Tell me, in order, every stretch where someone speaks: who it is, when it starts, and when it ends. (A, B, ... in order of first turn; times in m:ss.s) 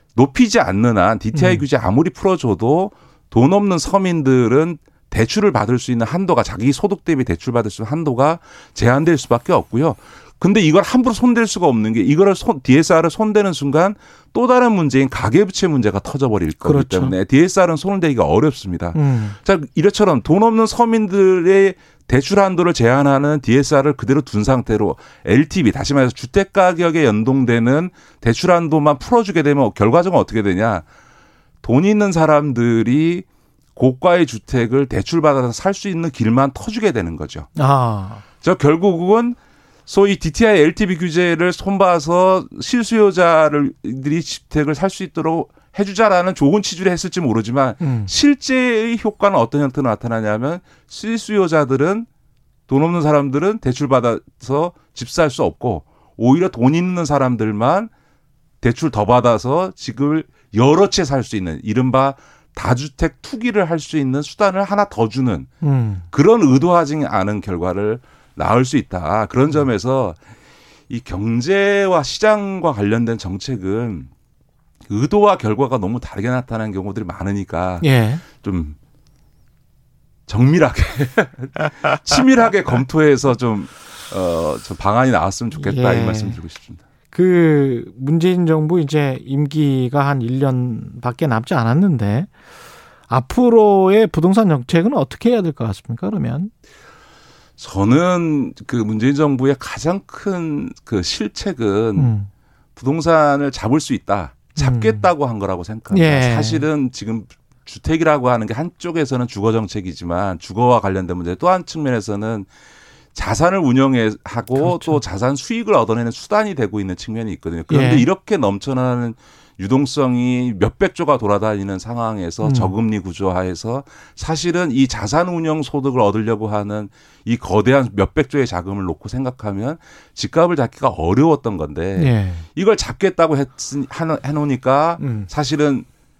0:00.1-0:30.8 A
0:01.3-0:01.6 B
0:16.6-0:17.1 B
0:18.9-0:19.4 B
0:31.6-0:33.2 A
0:33.8-0:37.5 A
0:37.6-0:38.2 B
0:38.4-0:52.1 A
0:47.8-0:48.1 B
0:52.7-0:57.9 A
0:58.6-1:05.5 A
1:05.6-1:06.0 B
1:06.1-1:10.2 A
1:10.9-1:14.1 A
1:14.9-1:18.8 A
1:17.8-1:18.2 B
1:20.3-1:26.8 A
1:25.6-1:26.4 B
1:27.1-1:32.3 B
1:33.1-1:36.5 B
1:37.6-1:42.1 A
1:42.0-1:42.3 B
1:42.8-1:52.5 A
1:44.6-1:45.1 B
1:45.9-1:46.7 B
1:53.1-2:15.8 A
1:54.5-1:55.0 B
1:57.7-1:58.1 B
2:02.4-2:02.7 B
2:12.0-2:12.4 B
2:15.0-2:15.3 B